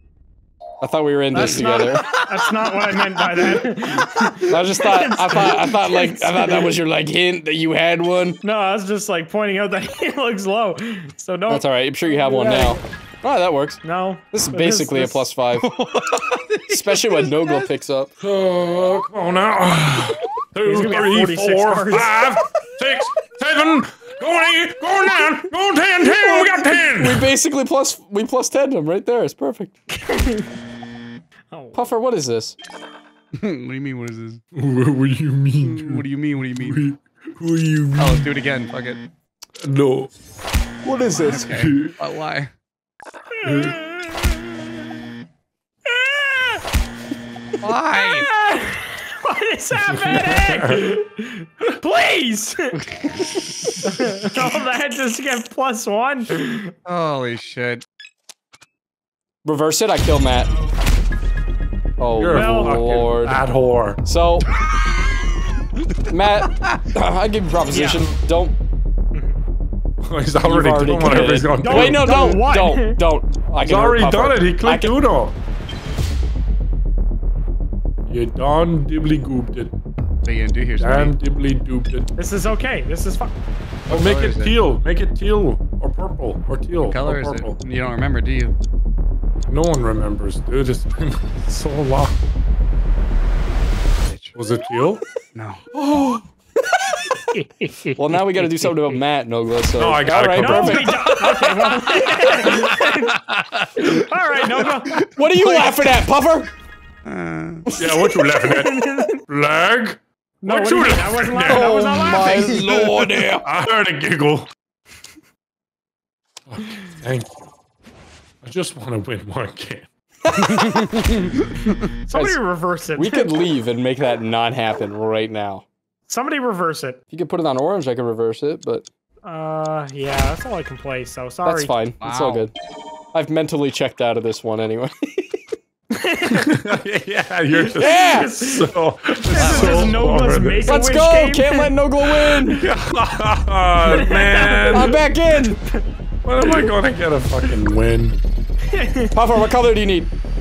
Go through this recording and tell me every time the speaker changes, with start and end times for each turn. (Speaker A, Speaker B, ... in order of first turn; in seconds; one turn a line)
Speaker A: 0.8-2.1
Speaker B: 1.3-6.7
Speaker C: 1.4-3.0
Speaker A: 4.4-8.4
Speaker B: 8.4-12.8
Speaker A: 11.5-13.8
Speaker B: 13.8-15.3
Speaker A: 14.3-15.7
Speaker C: 15.6-17.7
Speaker A: 16.7-18.1
Speaker D: 18.2-27.3
Speaker B: 20.6-22.2
Speaker A: 26.0-29.7
Speaker B: 29.9-30.5
Speaker B: 31.5-31.8
Speaker A: 31.7-32.5
Speaker C: 33.3-34.4
Speaker D: 34.5-38.3
Speaker C: 35.5-36.8
Speaker C: 38.0-39.0
Speaker D: 39.6-40.1
Speaker A: 40.8-41.6
Speaker C: 41.3-42.5
Speaker D: 41.3-41.9
Speaker B: 43.3-44.5
Speaker D: 43.4-43.8
Speaker B: 45.9-46.6
Speaker C: 47.6-48.3
Speaker B: 48.0-52.9
Speaker D: 49.9-50.8
Speaker C: 53.3-53.7
Speaker B: 53.8-56.7
Speaker C: 56.8-57.8
Speaker A: 59.4-60.5
Speaker A: 62.0-63.4
Speaker D: 62.1-64.0
Speaker B: 62.3-62.9
Speaker A: 64.0-64.5
Speaker A: 66.1-68.5
Speaker B: 67.7-68.1
Speaker D: 70.0-72.4
Speaker A: 70.4-75.0
Speaker B: 71.2-73.0
Speaker D: 73.6-75.3
Speaker D: 78.1-79.7
Speaker C: 80.2-81.1
Speaker D: 80.8-82.1
Speaker B: 82.2-83.4
Speaker C: 83.9-84.5
Speaker D: 83.9-87.6
Speaker C: 86.8-88.5
Speaker D: 89.5-92.1
Speaker C: 94.0-94.3
Speaker D: 94.3-95.0
Speaker C: 95.3-95.6
Speaker D: 95.7-96.3
Speaker B: 97.3-98.9
Speaker A: 98.0-102.0
Speaker D: 99.8-101.0
Speaker B: 100.4-103.2
Speaker C: 102.1-104.0
Speaker B: 103.8-105.0
Speaker C: 104.9-105.8
Speaker A: 105.1-106.5
Speaker C: 107.0-107.7
Speaker A: 107.7-108.1
Speaker D: 107.7-112.4
Speaker B: 108.4-109.2
Speaker B: 110.4-112.7
Speaker A: 111.4-113.5
Speaker C: 112.4-113.2
Speaker D: 113.4-114.5
Speaker D: 116.5-117.5
Speaker D: 118.4-119.9
Speaker C: 120.3-121.8
Speaker B: 122.1-123.3
Speaker A: 122.1-122.4
Speaker A: 123.0-125.6
Speaker B: 126.1-127.0
Speaker A: 127.1-128.8
Speaker B: 129.2-131.7
Speaker A: 131.4-132.5
Speaker C: 132.0-132.5
Speaker A: 133.1-135.5
Speaker B: 135.9-136.7
Speaker D: 136.3-140.8
Speaker A: 137.7-138.3
Speaker B: 137.8-142.6
Speaker C: 139.3-140.0
Speaker A: 140.6-142.7
Speaker D: 142.5-145.0
Speaker B: 143.8-145.0
Speaker A: 144.7-145.6
Speaker D: 146.2-148.2
Speaker B: 148.7-149.2
Speaker A: 149.1-150.1